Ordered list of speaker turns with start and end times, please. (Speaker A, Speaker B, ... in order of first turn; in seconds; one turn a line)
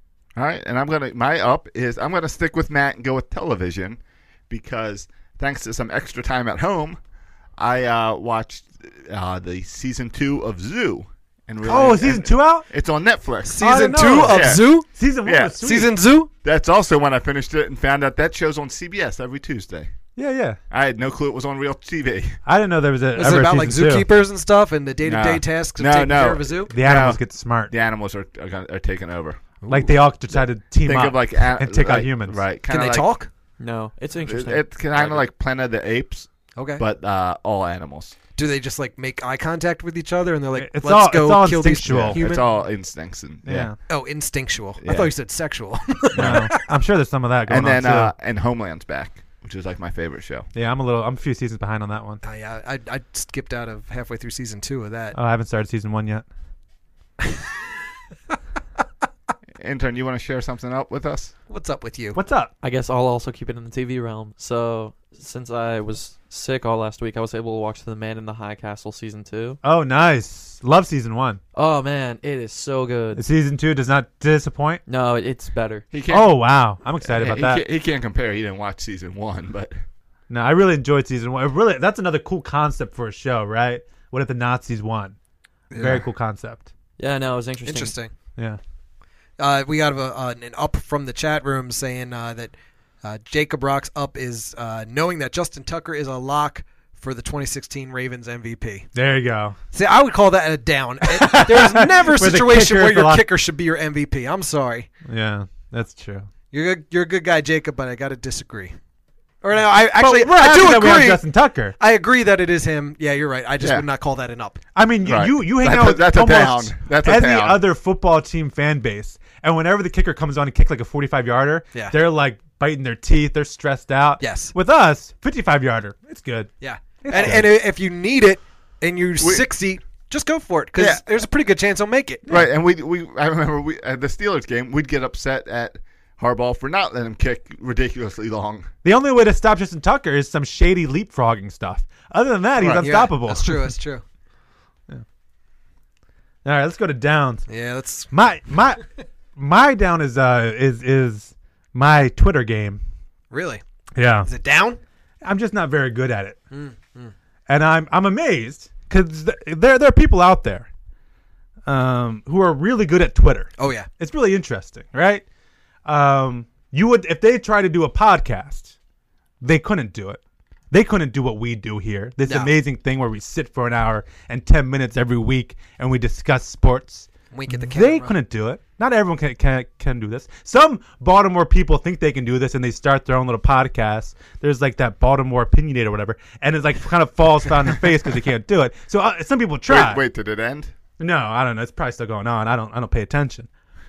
Speaker A: 0.3-7.0
Speaker A: 7.6-14.7
Speaker B: 11.6-12.7
Speaker C: 13.4-14.9
Speaker B: 13.6-15.9
Speaker A: 15.2-15.6
Speaker C: 15.6-16.3
Speaker A: 16.4-19.9
Speaker B: 20.1-20.6
Speaker A: 20.7-22.4
Speaker B: 22.4-24.1
Speaker C: 23.1-26.7
Speaker A: 25.0-29.6
Speaker B: 26.7-27.7
Speaker C: 29.6-29.9
Speaker B: 29.7-32.4
Speaker A: 30.3-33.1
Speaker C: 32.7-33.3
Speaker D: 33.6-35.2
Speaker A: 34.2-38.1
Speaker C: 36.5-36.8
Speaker C: 38.4-42.4
Speaker B: 40.6-42.2
Speaker A: 41.9-43.7
Speaker B: 43.4-43.8
Speaker C: 43.9-46.5
Speaker A: 44.8-45.1
Speaker A: 46.1-46.5
Speaker B: 46.2-48.1
Speaker A: 47.5-50.5
Speaker B: 50.5-52.2
Speaker C: 52.2-55.1
Speaker B: 55.1-56.2
Speaker A: 59.6-61.3
Speaker C: 61.5-62.2
Speaker B: 62.1-62.5
Speaker D: 62.6-69.6
Speaker B: 69.6-71.4
Speaker D: 71.5-73.2
Speaker B: 73.1-74.8
Speaker D: 74.9-75.9
Speaker A: 75.9-76.4
Speaker B: 76.1-77.6
Speaker A: 77.0-79.7
Speaker B: 80.3-85.2
Speaker C: 85.7-86.0
Speaker B: 85.8-86.7
Speaker D: 87.0-88.0
Speaker C: 87.6-88.1
Speaker C: 89.4-98.9
Speaker B: 98.9-99.5
Speaker C: 99.7-104.9
Speaker B: 101.1-103.3
Speaker B: 105.0-106.3
Speaker C: 106.5-108.8
Speaker C: 109.4-111.2
Speaker B: 109.9-111.8
Speaker C: 111.8-114.6
Speaker A: 113.6-113.8
Speaker B: 114.7-126.5
Speaker A: 115.0-117.6
Speaker C: 124.2-124.5
Speaker C: 126.6-132.2
Speaker B: 127.0-127.5
Speaker A: 129.2-129.5
Speaker A: 130.8-131.0
Speaker A: 132.3-138.7
Speaker B: 138.8-143.7
Speaker C: 142.6-144.0
Speaker B: 146.4-147.4
Speaker C: 147.5-148.1
Speaker B: 148.1-148.8
Speaker B: 149.3-152.8
Speaker C: 153.3-153.6
Speaker B: 153.9-154.3
Speaker C: 154.2-154.8
Speaker B: 155.2-156.4
Speaker C: 156.5-157.1
Speaker B: 157.5-160.7
Speaker B: 161.7-165.2
Speaker C: 163.6-163.9
Speaker B: 165.8-168.7
Speaker B: 169.4-170.2
Speaker B: 170.7-190.0
Speaker C: 172.2-172.5
Speaker C: 177.3-178.2
Speaker A: 189.7-190.7
Speaker B: 191.0-193.5